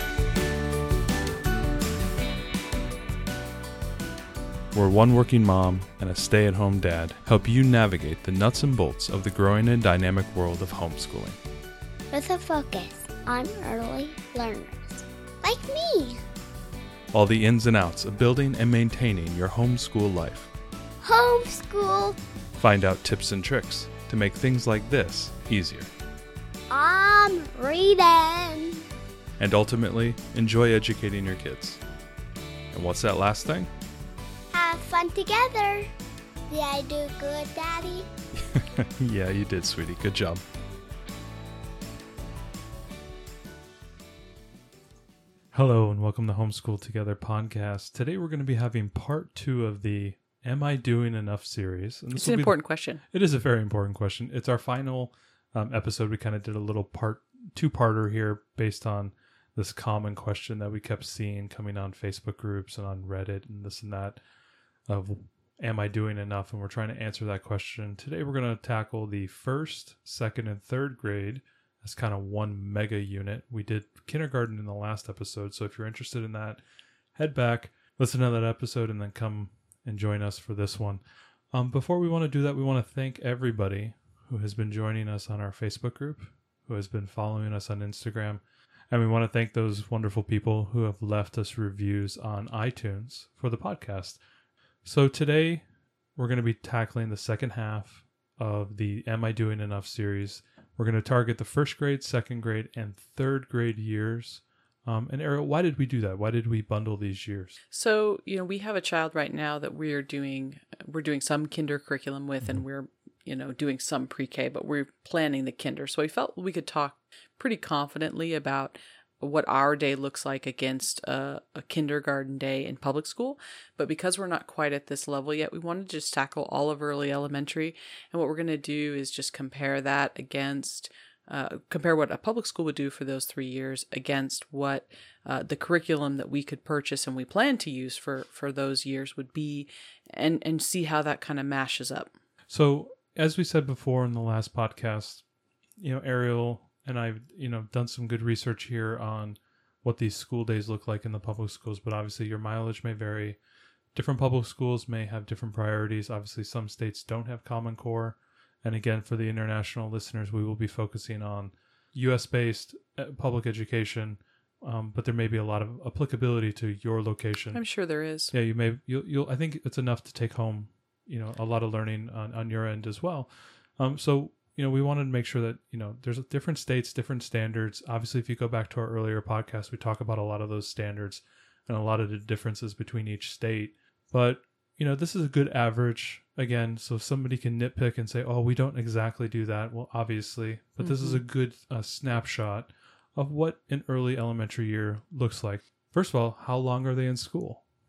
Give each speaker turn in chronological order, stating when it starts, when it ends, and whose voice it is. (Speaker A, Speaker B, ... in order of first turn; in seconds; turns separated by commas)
Speaker A: 4.7-11.4, Speaker B: 12.1-16.2, Speaker A: 17.1-20.5, Speaker B: 21.0-22.2, Speaker A: 22.6-25.9, Speaker B: 26.7-28.9, Speaker A: 29.4-31.8, Speaker A: 32.7-33.7, Speaker B: 34.5-35.9, Speaker B: 36.5-38.1, Speaker A: 38.5-40.4, Speaker A: 45.5-64.2, Speaker C: 52.1-53.0, Speaker A: 64.9-76.6, Speaker A: 77.2-81.0, Speaker A: 81.5-94.2, Speaker A: 94.8-107.6, Speaker C: 107.7-142.1, Speaker A: 142.5-145.2, Speaker A: 145.8-153.4, Speaker A: 153.9-167.6, Speaker C: 167.5-168.3, Speaker A: 168.3-197.6, Speaker C: 190.8-191.2